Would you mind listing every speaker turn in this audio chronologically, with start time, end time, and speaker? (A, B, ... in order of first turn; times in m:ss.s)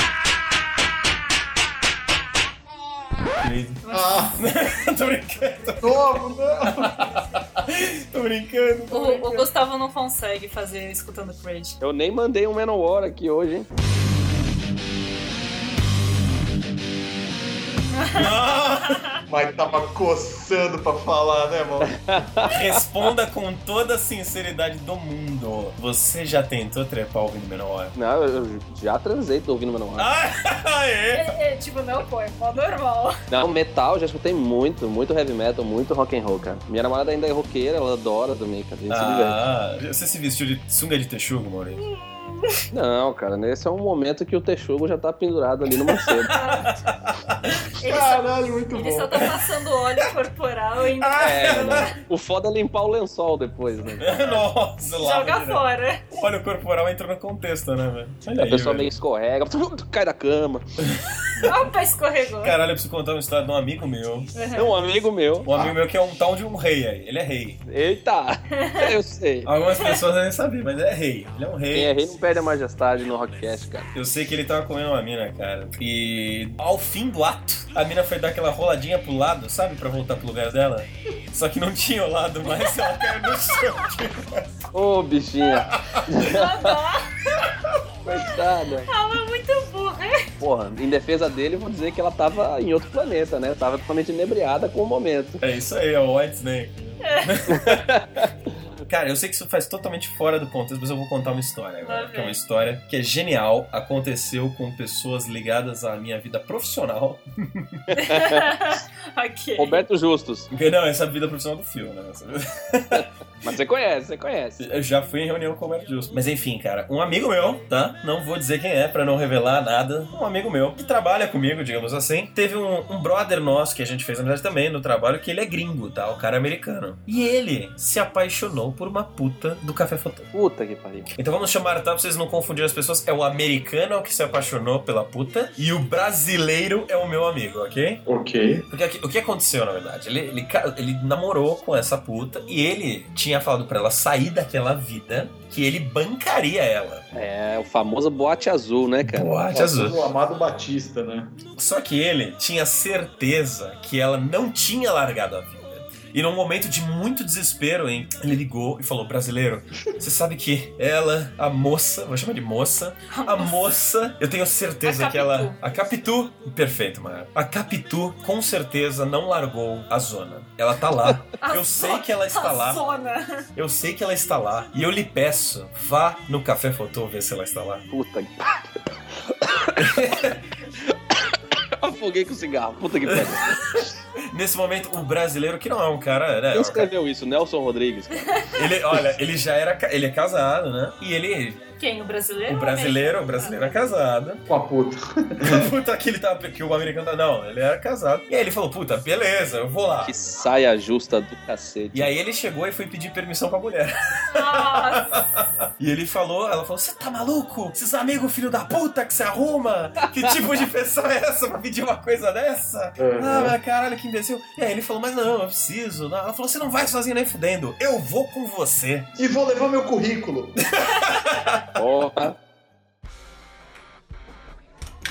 0:03.4-0:03.8 A
0:03.8-0:04.4 B
0:03.9-0:04.4 C
0:04.4-0:09.4 A
0:05.8-0:07.1 C
0:08.9-0:11.8 B
0:11.8-0:13.7 D
0:18.0-0:18.3 B
0:18.1-0:19.0 A
0:18.9-0:19.2 B
0:19.3-0:22.0 C
0:21.8-0:22.6 D
0:22.5-0:27.9 A
0:28.0-0:30.1 D
0:30.0-0:31.3 A
0:31.1-0:33.2 B
0:33.3-0:39.4 D
0:38.9-0:41.8 A
0:41.8-0:42.5 B
0:42.7-0:46.3 D
0:46.3-0:46.7 B
0:46.5-0:46.7 A
0:47.8-0:52.0 B
0:47.8-0:49.3 C
0:51.0-0:51.9 A
0:51.2-0:54.4 D
0:54.0-0:58.9 A
0:55.0-0:56.0 B
0:58.4-1:00.7 D
1:00.8-1:01.5 A
1:01.4-1:02.6 B
1:02.4-1:04.3 A
1:04.3-1:04.7 B
1:04.6-1:05.5 D
1:05.4-1:07.6 A
1:07.7-1:09.5 D
1:08.5-1:08.9 B
1:09.4-1:12.0 A
1:11.7-1:13.9 D
1:13.9-1:24.4 A
1:24.7-1:26.7 D
1:25.7-1:26.0 A
1:26.2-1:27.2 B
1:28.0-1:28.9 D
1:28.9-1:30.3 B
1:30.4-1:35.4 D
1:35.4-1:37.8 A
1:37.0-1:37.4 B
1:37.5-1:38.3 D
1:38.9-1:47.8 A
1:41.8-1:42.4 B
1:47.9-1:49.8 B
1:48.0-1:48.5 D
1:49.6-1:50.5 D
1:50.5-1:53.0 A
1:52.9-1:54.6 D
1:54.6-2:10.3 A
2:10.3-2:11.1 D
2:11.2-2:18.0 A
2:18.1-2:18.7 C
2:18.7-2:27.0 A
2:27.1-2:29.3 D
2:29.1-2:30.0 A
2:29.5-2:31.4 C
2:31.6-2:52.8 A
2:43.1-2:43.6 B
2:44.8-2:45.6 B
2:51.4-2:53.5 B
2:53.6-2:57.9 A
2:57.9-2:58.7 D
2:59.3-2:59.8 D
2:59.8-3:00.4 A
3:01.8-3:03.5 D
3:03.1-3:06.9 A
3:06.5-3:08.3 D
3:08.6-3:11.7 A
3:11.8-3:13.8 B
3:12.5-3:14.5 A
3:14.5-3:15.7 C
3:15.4-3:20.2 A
3:20.0-3:22.1 D
3:21.9-3:39.1 A
3:24.2-3:25.3 B
3:33.0-3:33.6 C
3:39.2-3:40.6 C
3:40.7-3:41.7 A
3:41.8-3:42.4 D